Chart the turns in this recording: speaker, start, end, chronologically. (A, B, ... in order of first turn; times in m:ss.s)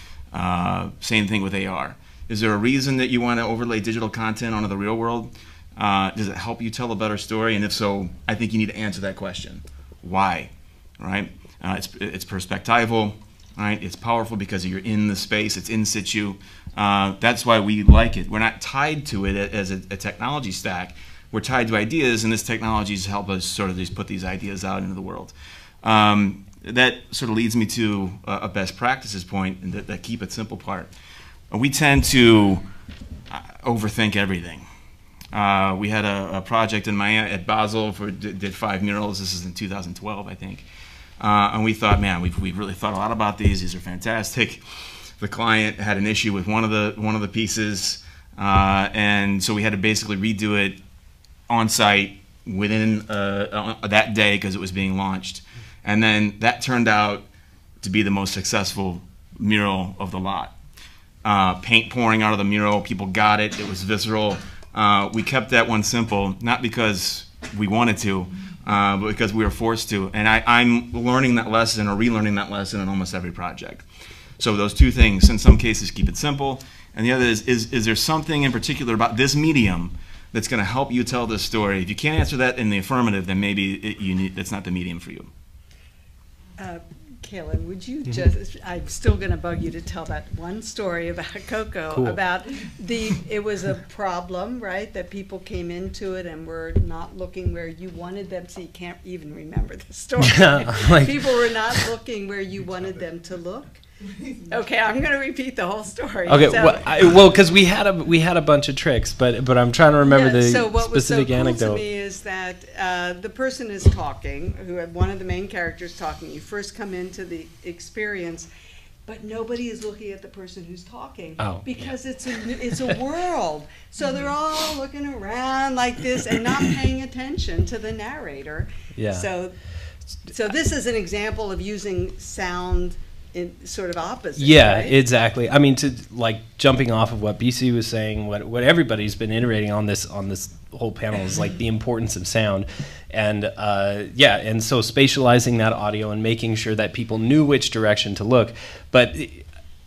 0:00.3-0:25.3 A
0:25.8-0:30.9 A
0:31.5-0:32.6 A
0:33.3-0:34.7 A
0:35.3-0:40.6 A
0:41.2-0:50.8 A
0:51.5-0:57.2 A
0:57.8-1:00.6 A
1:01.2-1:13.8 A
1:14.4-1:25.3 A
1:26.6-1:43.8 B
1:31.9-1:32.2 C
1:40.2-1:41.2 C
1:44.4-1:47.2 B
1:46.3-1:51.8 C
1:50.0-1:58.5 B
1:59.0-2:09.6 B
2:01.4-2:01.9 C
2:09.0-2:09.2 C
2:10.3-2:15.0 B
2:14.4-2:29.4 C